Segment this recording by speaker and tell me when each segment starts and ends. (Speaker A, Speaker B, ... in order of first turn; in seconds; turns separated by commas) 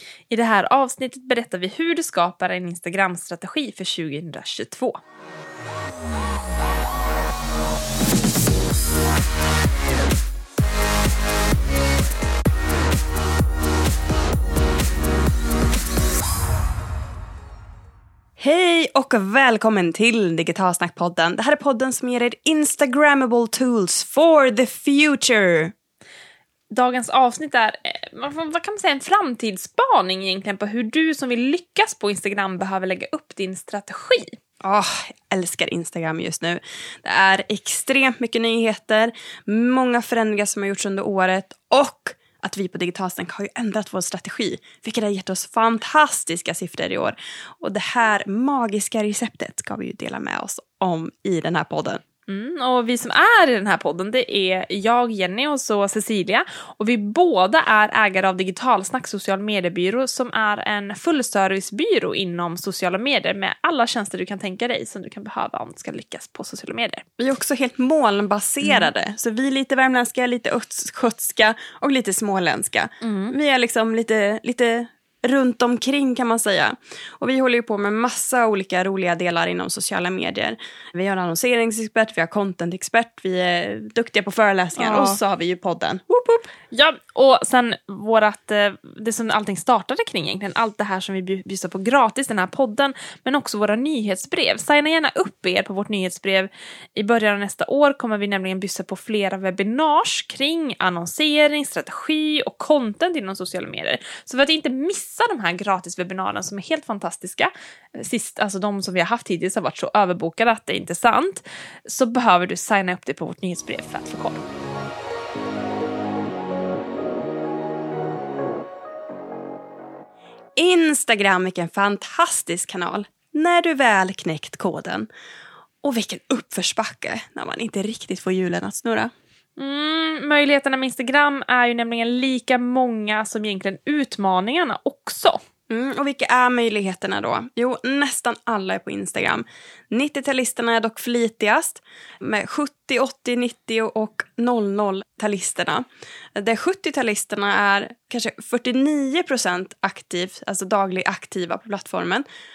Speaker A: 0.3-5.0, Speaker B: 18.4-25.7, Speaker A: 26.7-34.4, Speaker B: 34.6-52.0, Speaker A: 52.3-67.0, Speaker B: 67.2-86.5, Speaker A: 68.6-68.9, Speaker A: 73.0-73.3, Speaker A: 84.8-85.2, Speaker A: 86.7-114.4, Speaker B: 120.6-125.1, Speaker B: 125.8-129.1, Speaker A: 129.6-135.4, Speaker B: 135.7-145.8, Speaker B: 146.4-152.2